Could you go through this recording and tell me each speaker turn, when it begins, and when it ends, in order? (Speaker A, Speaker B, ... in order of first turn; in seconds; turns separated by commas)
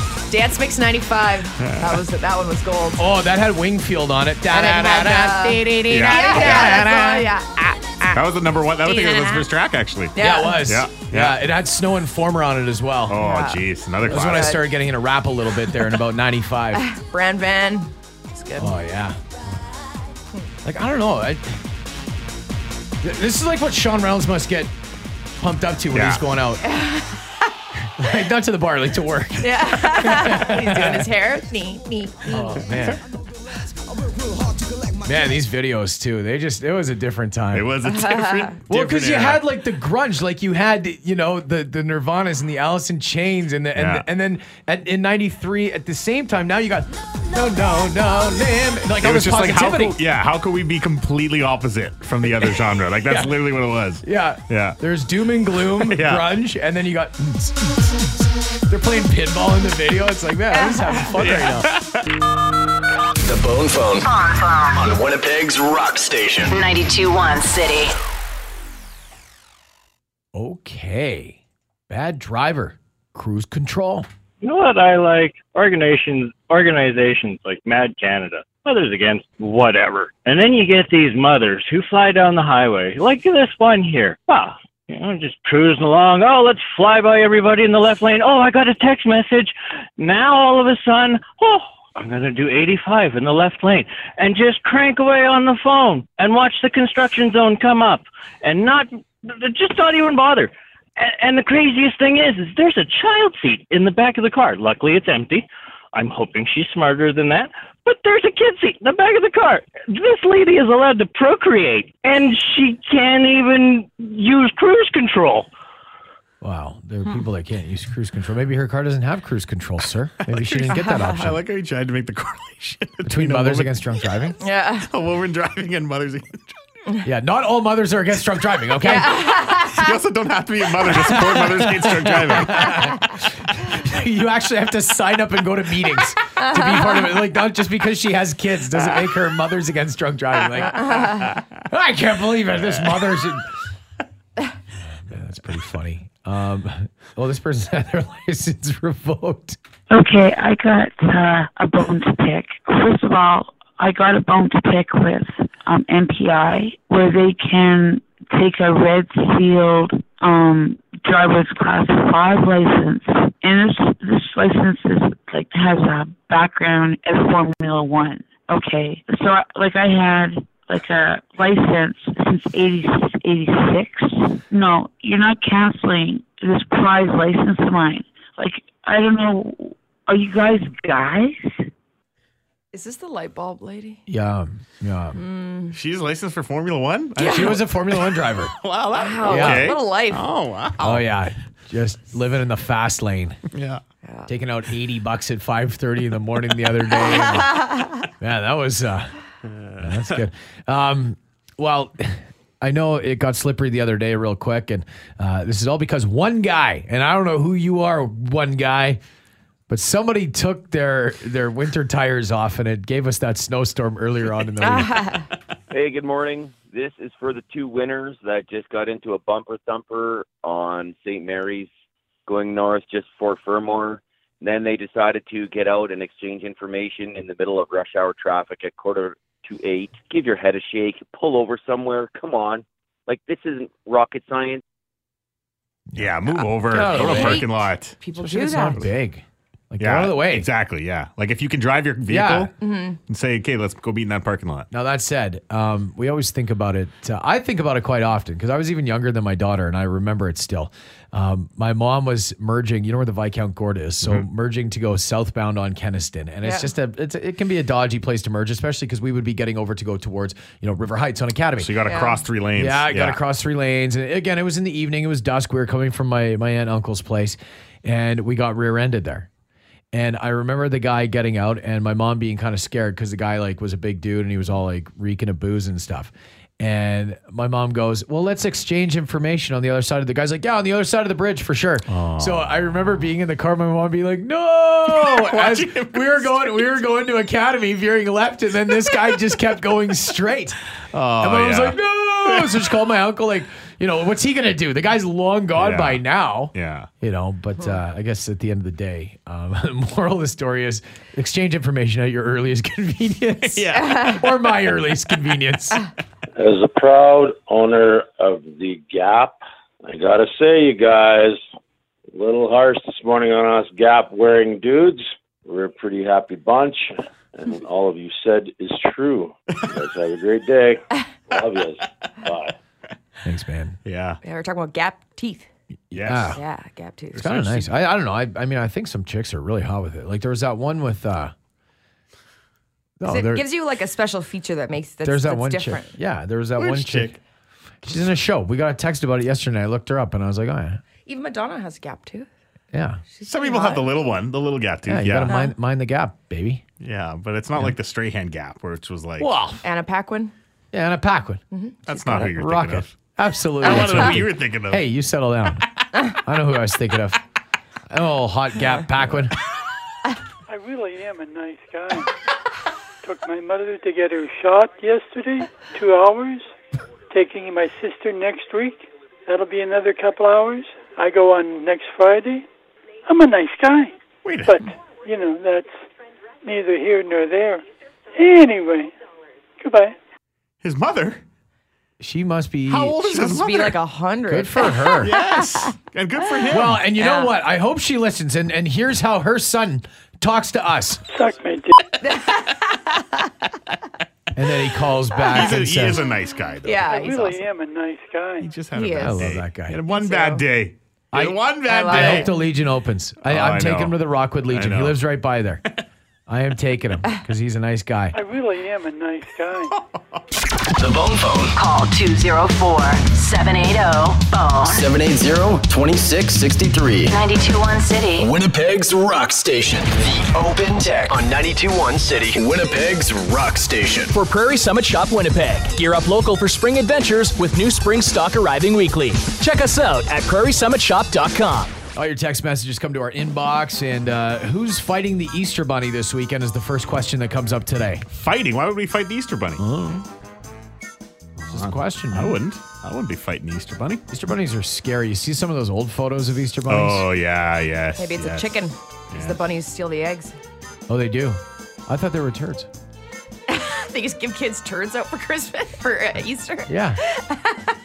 Speaker A: 0.3-3.0, Speaker B: 1.6-2.0, Speaker C: 3.0-7.3, Speaker A: 4.5-8.2, Speaker B: 5.9-7.0, Speaker B: 8.1-11.4, Speaker A: 8.8-9.5, Speaker A: 10.2-10.6, Speaker C: 10.2-13.2, Speaker B: 13.1-14.6, Speaker A: 13.2-14.7, Speaker C: 14.1-16.9, Speaker A: 16.9-18.7, Speaker C: 18.6-19.4, Speaker C: 20.6-21.6, Speaker C: 23.0-24.7, Speaker C: 25.4-26.7, Speaker B: 25.9-26.2, Speaker A: 26.6-27.3, Speaker C: 28.0-31.0, Speaker A: 29.4-32.6, Speaker C: 32.3-33.0, Speaker C: 35.0-37.8, Speaker B: 37.5-39.5, Speaker A: 38.0-38.5, Speaker C: 38.7-50.0, Speaker B: 43.7-44.0, Speaker B: 49.0-54.8, Speaker C: 53.1-53.4, Speaker C: 54.0-57.7, Speaker B: 55.8-56.3, Speaker C: 58.7-61.7, Speaker A: 60.5-60.9, Speaker B: 61.1-62.0, Speaker D: 63.2-64.1, Speaker E: 64.0-64.8, Speaker D: 64.8-66.6, Speaker E: 66.5-67.9, Speaker C: 70.3-74.1, Speaker F: 74.4-115.5, Speaker C: 116.4-121.4, Speaker B: 120.3-123.9, Speaker C: 123.1-124.4, Speaker A: 124.4-124.9, Speaker B: 124.8-126.6, Speaker C: 127.0-129.2, Speaker A: 128.8-129.9, Speaker B: 129.6-132.9, Speaker C: 130.9-143.5, Speaker A: 136.4-137.1, Speaker A: 140.7-141.3, Speaker B: 140.8-141.4, Speaker C: 144.9-149.6, Speaker G: 149.9-181.7, Speaker A: 182.7-184.0, Speaker C: 184.1-185.2, Speaker A: 185.2-185.8, Speaker B: 185.7-191.1, Speaker C: 187.2-188.5, Speaker A: 187.2-187.6, Speaker A: 189.0-190.3, Speaker C: 189.3-189.7, Speaker C: 190.8-193.4, Speaker B: 193.5-193.8, Speaker A: 194.0-194.3, Speaker C: 194.3-199.2, Speaker A: 197.1-197.9, Speaker B: 199.5-200.2, Speaker C: 199.8-209.0, Speaker C: 209.7-215.1, Speaker A: 214.6-215.3, Speaker H: 215.7-221.7, Speaker H: 222.3-234.6, Speaker C: 235.9-237.4, Speaker B: 236.0-238.0, Speaker A: 236.9-238.9, Speaker C: 238.2-240.5, Speaker B: 239.8-242.5, Speaker C: 242.1-242.5, Speaker A: 242.6-243.0, Speaker B: 243.1-244.7, Speaker C: 244.7-261.7, Speaker A: 256.4-256.7, Speaker B: 261.6-263.2, Speaker A: 261.9-262.2, Speaker C: 262.6-269.3, Speaker C: 269.9-290.6, Speaker B: 281.9-282.5, Speaker B: 284.9-286.7, Speaker B: 290.9-292.7, Speaker C: 291.2-305.9, Speaker B: 295.6-296.0, Speaker B: 296.5-296.9, Speaker B: 303.5-304.4, Speaker A: 303.7-304.2, Speaker I: 306.4-311.4, Speaker I: 312.1-322.6, Speaker C: 323.2-323.8, Speaker B: 323.9-324.2, Speaker A: 324.2-325.5, Speaker C: 325.9-326.4, Speaker B: 325.9-326.4, Speaker A: 326.3-327.2, Speaker B: 327.1-327.7, Speaker C: 327.2-331.3, Speaker C: 333.0-333.4, Speaker A: 333.1-336.0, Speaker C: 335.1-337.2, Speaker B: 336.6-337.2, Speaker C: 337.8-340.8, Speaker A: 341.1-342.3, Speaker C: 342.7-343.0, Speaker A: 343.1-343.9, Speaker B: 343.2-345.4, Speaker C: 344.9-346.6, Speaker A: 345.3-345.5, Speaker B: 346.8-349.3, Speaker C: 349.2-349.6, Speaker A: 349.6-350.3, Speaker C: 350.7-357.2, Speaker A: 351.5-351.8, Speaker B: 351.9-352.9, Speaker B: 353.6-354.9, Speaker B: 355.6-355.9, Speaker C: 357.9-359.4, Speaker J: 360.5-362.1, Speaker J: 363.0-366.5, Speaker J: 367.1-372.5, Speaker J: 373.1-375.9, Speaker B: 374.2-374.6, Speaker J: 376.4-377.6, Speaker J: 378.2-378.9, Speaker J: 379.6-380.0, Speaker B: 380.6-381.2, Speaker C: 382.0-383.0, Speaker B: 382.7-383.8, Speaker A: 383.0-385.7, Speaker C: 384.3-385.1, Speaker B: 385.0-386.8, Speaker A: 386.4-387.3, Speaker C: 386.5-391.0, Speaker J: 391.1-391.8, Speaker A: 392.0-393.3, Speaker C: 394.4-396.0, Speaker B: 395.3-397.0, Speaker A: 396.6-397.4, Speaker J: 396.9-398.5, Speaker B: 398.4-402.3, Speaker A: 398.7-399.4, Speaker C: 399.0-399.8, Speaker A: 399.9-400.4, Speaker C: 401.1-405.6, Speaker A: 401.7-402.3, Speaker B: 403.2-405.0, Speaker C: 406.3-408.2, Speaker J: 408.1-409.8, Speaker B: 409.7-410.2, Speaker D: 410.7-411.5, Speaker E: 411.6-414.9, Speaker D: 414.6-417.1, Speaker E: 417.1-418.3, Speaker D: 418.2-424.1, Speaker K: 424.1-431.8, Speaker C: 431.9-438.1, Speaker B: 438.1-439.6, Speaker C: 439.6-440.1, Speaker B: 441.4-444.0, Speaker C: 441.5-442.4, Speaker C: 444.1-447.1, Speaker B: 446.7-448.5, Speaker A: 448.0-450.4, Speaker B: 449.1-449.4, Speaker C: 450.9-452.7, Speaker A: 453.5-457.7, Speaker C: 456.7-457.0